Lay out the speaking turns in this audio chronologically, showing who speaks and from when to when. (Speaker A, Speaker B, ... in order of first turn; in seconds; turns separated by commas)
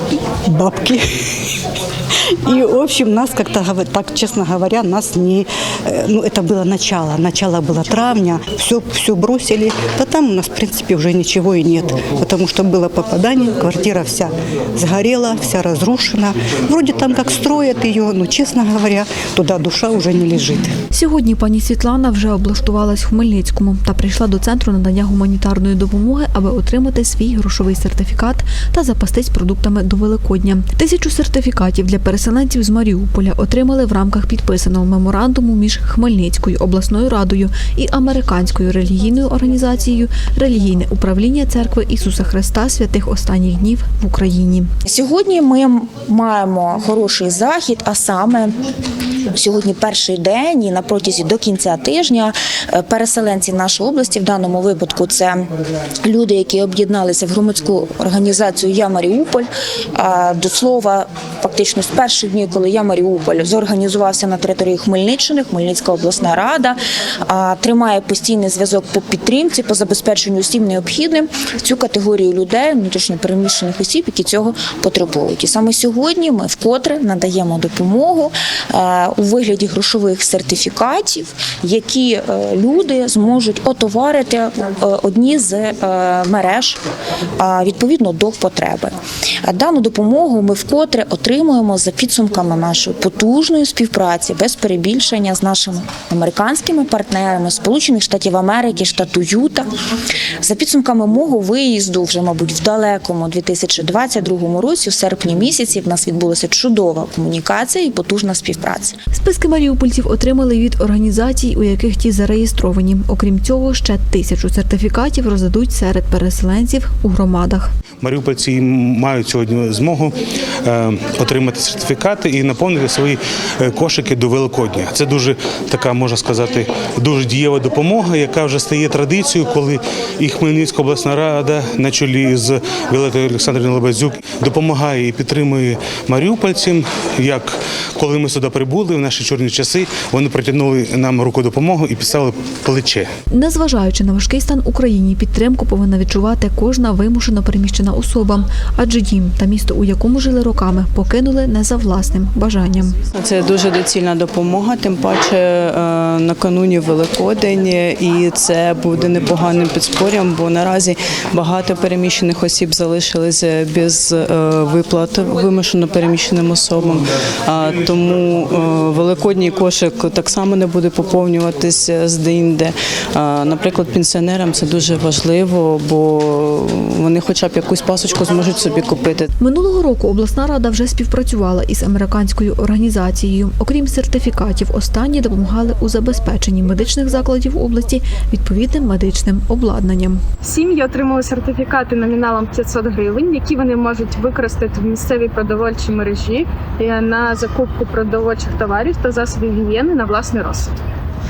Speaker A: 0.2-1.2, Speaker A: 2.2-20.7, Speaker B: 20.9-44.7, Speaker C: 44.9-48.5, Speaker C: 49.3-55.5, Speaker C: 56.0-86.8, Speaker C: 87.4-99.7, Speaker C: 100.4-109.0, Speaker B: 109.1-117.7, Speaker D: 118.0-143.1, Speaker B: 143.3-153.0, Speaker E: 153.1-179.3, Speaker B: 179.4-190.2, Speaker F: 190.4-200.8